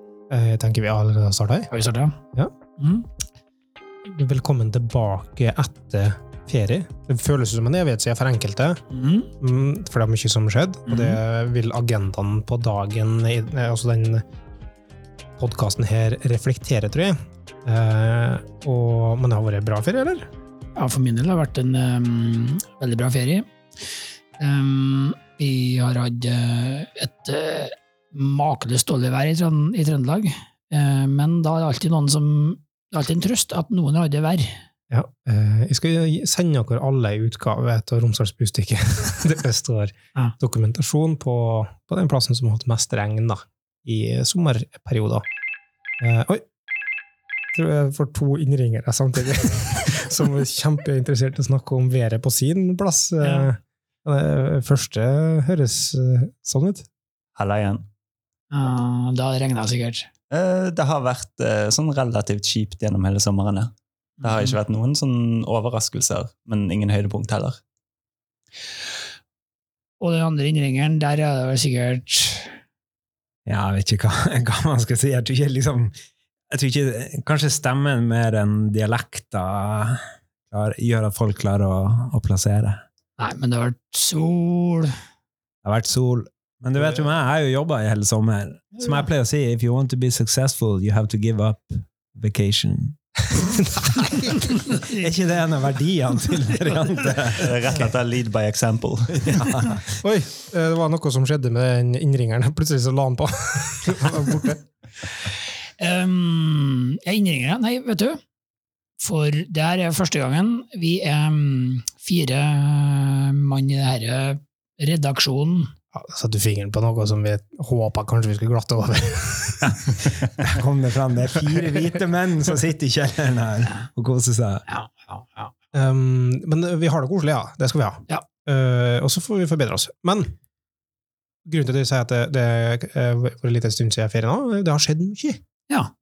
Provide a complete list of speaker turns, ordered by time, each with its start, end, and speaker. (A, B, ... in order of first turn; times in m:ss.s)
0:00.3-0:01.7 A
0:01.7-0:02.2 B
0:02.8-0:03.0 B
0:04.0-0:08.8 A
0:08.9-0:09.3 B
0:09.4-0:14.2 A
0:10.9-0:11.2 B
0:15.4-0:20.3 A
0:20.7-0:34.6 B
0:34.9-0:45.2 A
0:46.0-0:46.4 A
0:47.5-0:56.9 A
0:53.2-0:53.5 B
0:57.4-0:57.9 C
0:58.5-1:00.1 B
1:00.3-1:07.6 C
1:04.2-1:04.6 B
1:10.0-1:12.6 B
1:13.4-1:15.9 D
1:16.5-1:22.8 D
1:23.2-1:25.0 B
1:25.6-1:33.0 D
1:33.4-1:34.6 A
1:34.4-1:37.6 D
1:34.6-1:35.0 B
1:37.3-1:39.6 C
1:39.1-1:39.9 D
1:40.0-1:44.6 A
1:45.1-1:48.2 B
1:49.0-1:55.8 B
1:55.9-1:59.8 A
1:59.7-2:04.6 D
2:04.7-2:05.5 B
2:05.7-2:10.3 A
2:11.4-2:15.4 A